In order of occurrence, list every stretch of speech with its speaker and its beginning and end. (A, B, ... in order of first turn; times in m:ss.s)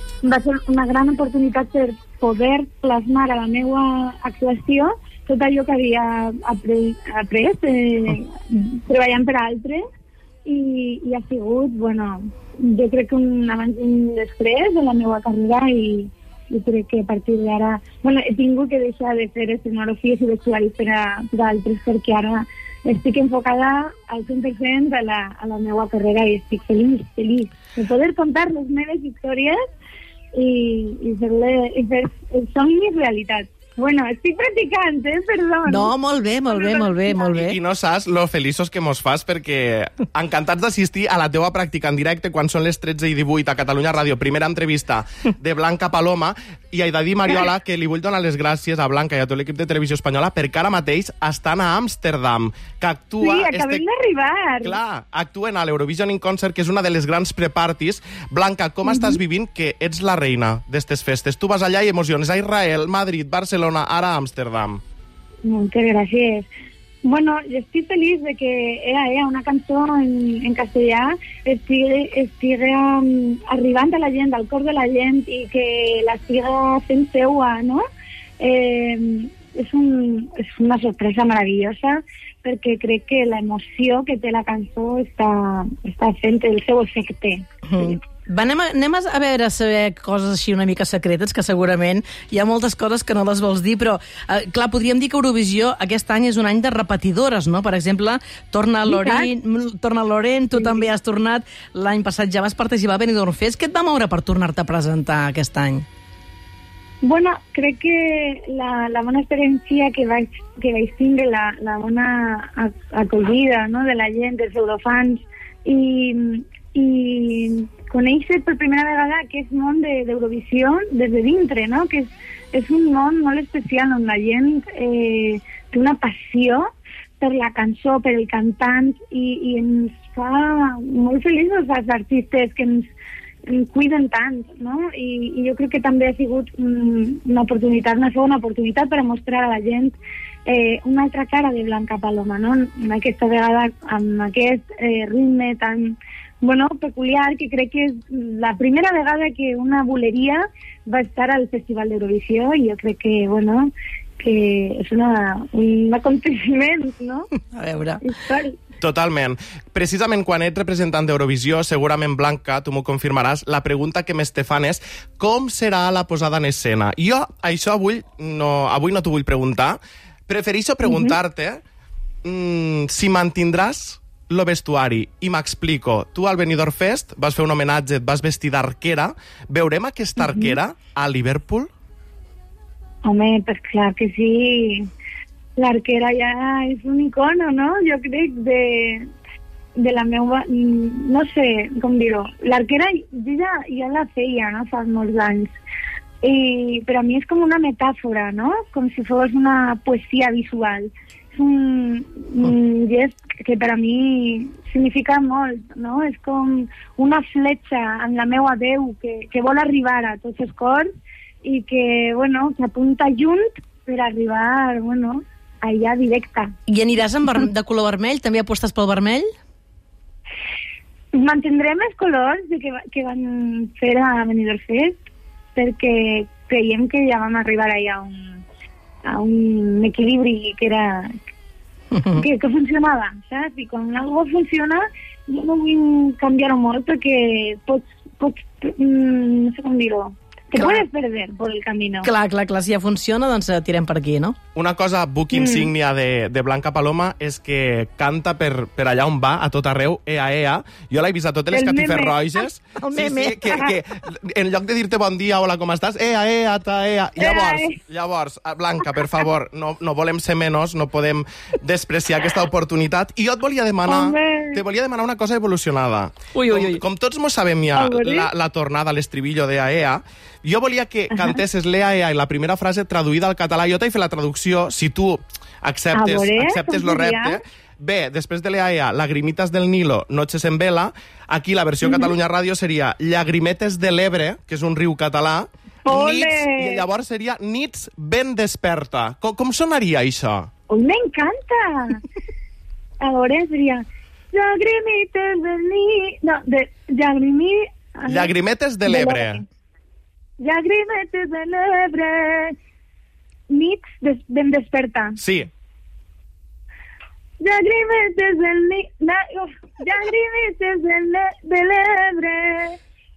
0:00.2-0:09.8 A
0:10.4-0:29.6 A
0:30.3-0:35.9 A
0:35.6-0:37.6 B
0:36.5-0:37.3 A
0:37.3-0:53.8 C
0:53.2-0:54.8 A
0:54.6-1:04.8 C
0:58.8-0:59.2 A
1:05.4-1:06.5 A
1:07.0-1:17.8 A
1:18.4-1:28.0 A
1:27.6-1:45.8 B
1:38.9-1:39.3 A
1:40.6-1:40.9 A
1:47.0-2:06.7 A
2:07.2-2:12.9 A
2:13.5-2:37.3 A
2:37.5-2:38.0 B
2:38.0-2:38.6 A
2:38.8-2:51.6 C
2:50.8-2:51.2 A
2:52.2-3:01.7 C
3:00.2-3:00.6 A
3:03.0-3:04.8 A
3:05.6-3:09.0 A
3:09.8-3:15.5 A
3:16.2-3:30.9 A
3:31.4-3:36.5 A
3:36.7-3:39.3 B
3:41.1-3:45.0 A
3:45.6-3:48.4 A
3:49.0-3:51.1 A
3:51.9-3:52.2 B
3:52.2-4:02.1 A
4:00.5-4:00.9 B
4:02.0-4:04.4 B
4:04.6-4:50.5 C
4:05.3-4:05.7 A
4:11.5-4:12.4 A
4:12.8-4:13.4 B
4:13.4-4:13.8 A
4:17.2-4:17.8 A
4:23.9-4:24.6 A
4:26.3-4:26.8 B
4:27.7-4:28.3 A
4:31.1-4:31.4 A
4:35.9-4:37.4 A
4:41.8-4:42.1 A
4:45.8-4:46.8 A
4:50.7-4:52.0 A
4:53.0-4:58.3 A
4:58.1-4:59.4 C
4:58.8-4:59.4 A
5:00.4-5:02.5 A
5:03.5-5:05.2 A
5:05.2-5:05.5 C
5:07.4-5:12.8 A